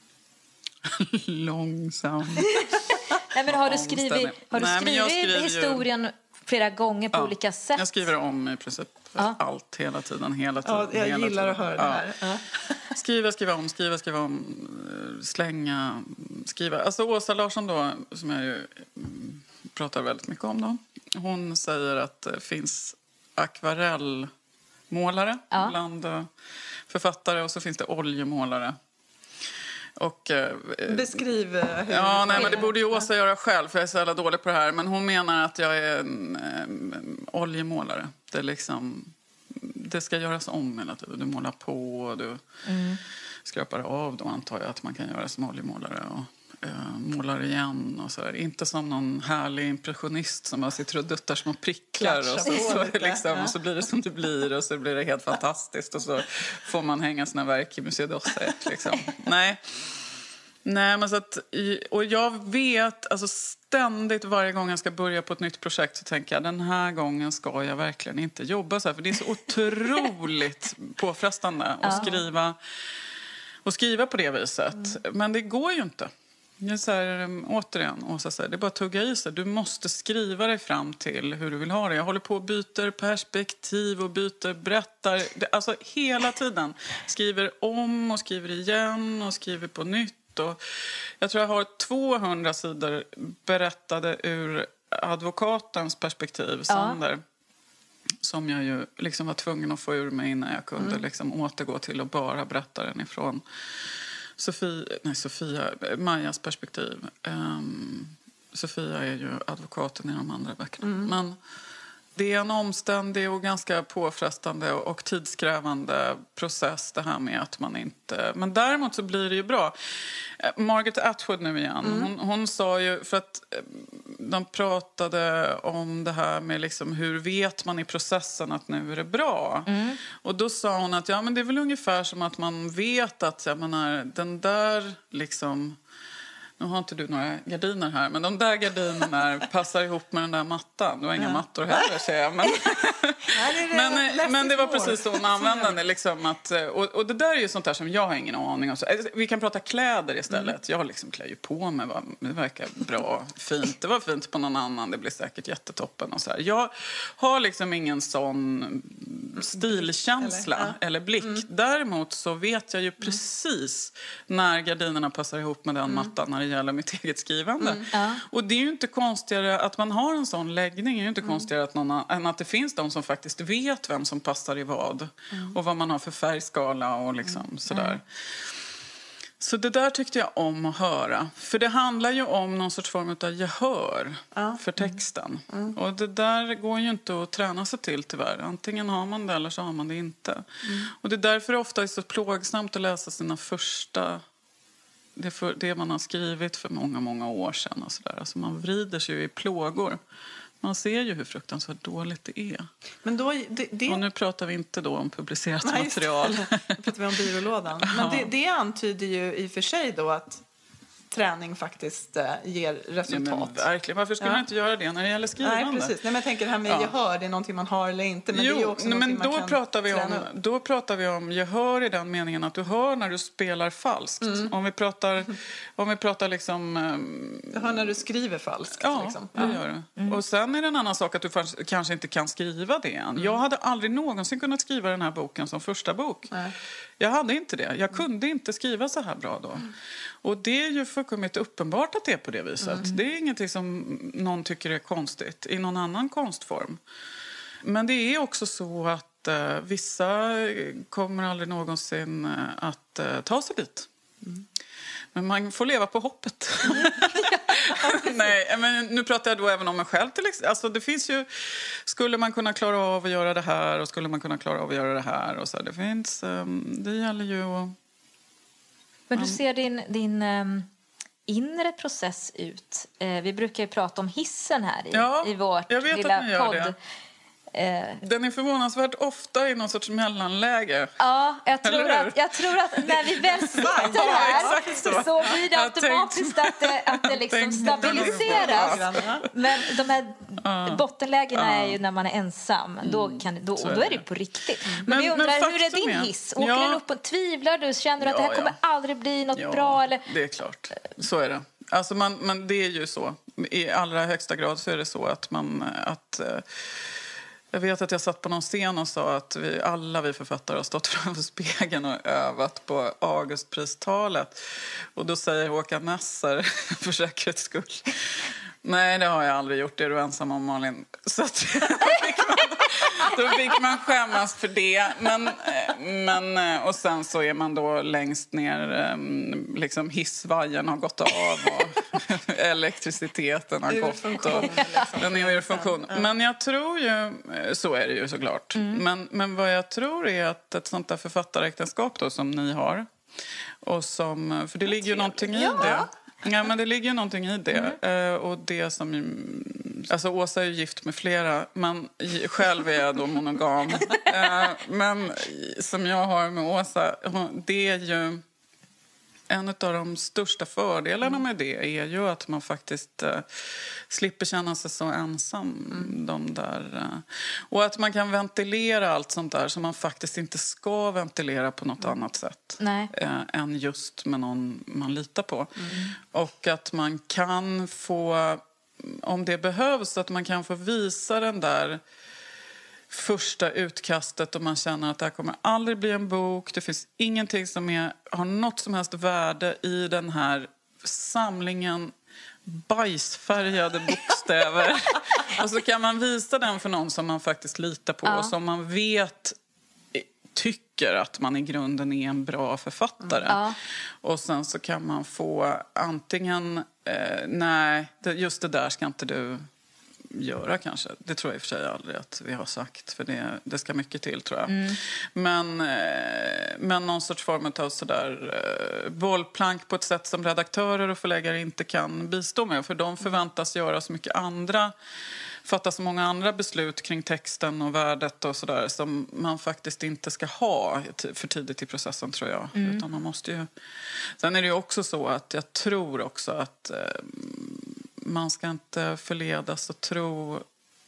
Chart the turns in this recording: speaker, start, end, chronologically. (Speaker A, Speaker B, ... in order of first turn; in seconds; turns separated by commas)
Speaker A: 0.8-2.7, Speaker B: 2.4-8.1, Speaker A: 3.5-5.9, Speaker A: 7.1-12.1, Speaker C: 10.7-12.8, Speaker A: 12.9-24.3, Speaker A: 24.9-26.3, Speaker B: 25.5-25.8, Speaker A: 26.9-28.8, Speaker A: 30.0-31.2, Speaker C: 30.9-33.1, Speaker A: 31.9-42.4, Speaker B: 32.3-32.6, Speaker B: 42.6-43.0, Speaker A: 43.5-59.6, Speaker C: 52.0-53.5, Speaker A: 60.6-72.6, Speaker B: 71.8-72.2, Speaker A: 73.6-90.6, Speaker A: 91.2-97.2, Speaker B: 96.7-97.0, Speaker A: 98.2-103.4, Speaker A: 104.4-111.4, Speaker C: 110.8-111.1, Speaker A: 112.2-135.8, Speaker C: 121.8-122.1, Speaker B: 129.7-130.0, Speaker A: 136.6-178.1, Speaker C: 141.2-141.9, Speaker C: 143.3-145.8, Speaker C: 159.4-161.4, Speaker C: 167.6-167.9, Speaker B: 167.9-168.2, Speaker B: 177.7-178.0, Speaker A: 179.4-194.2, Speaker C: 184.3-184.6, Speaker C: 185.5-185.8, Speaker C: 190.7-190.9, Speaker A: 195.2-200.0, Speaker A: 200.6-202.7, Speaker C: 203.1-204.0, Speaker A: 203.9-206.7, Speaker C: 205.6-210.4, Speaker A: 207.8-208.3, Speaker C: 211.1-213.7, Speaker A: 213.1-216.0, Speaker C: 215.4-220.3, Speaker A: 216.7-216.9, Speaker A: 218.3-227.8, Speaker C: 224.2-224.5, Speaker C: 227.5-229.6, Speaker A: 228.8-236.3, Speaker B: 229.4-230.2, Speaker A: 237.0-239.7, Speaker A: 240.2-246.8, Speaker C: 242.6-242.9, Speaker A: 247.6-253.9, Speaker A: 255.1-267.8, Speaker B: 269.1-270.7, Speaker A: 269.1-269.4, Speaker B: 271.3-276.8, Speaker A: 274.9-276.8, Speaker B: 277.5-278.0, Speaker A: 278.0-281.0, Speaker B: 281.0-300.0, Speaker A: 281.6-289.7, Speaker C: 283.5-285.3, Speaker C: 287.6-289.2, Speaker A: 290.4-291.8, Speaker A: 292.8-294.1, Speaker A: 294.8-296.8, Speaker A: 298.0-298.6, Speaker A: 299.3-306.9, Speaker A: 307.5-342.9, Speaker C: 333.7-336.1, Speaker B: 334.4-334.8, Speaker B: 338.6-338.8, Speaker A: 343.6-358.2, Speaker B: 345.3-345.8, Speaker C: 345.5-345.9, Speaker A: 359.3-381.8, Speaker B: 372.6-372.9, Speaker A: 382.9-391.9, Speaker A: 392.4-399.4, Speaker B: 398.1-398.3, Speaker A: 399.9-403.4, Speaker B: 403.3-403.6, Speaker A: 404.0-409.4, Speaker A: 410.1-424.7, Speaker B: 414.5-414.8, Speaker A: 425.4-433.5, Speaker B: 432.6-432.8, Speaker A: 434.2-440.5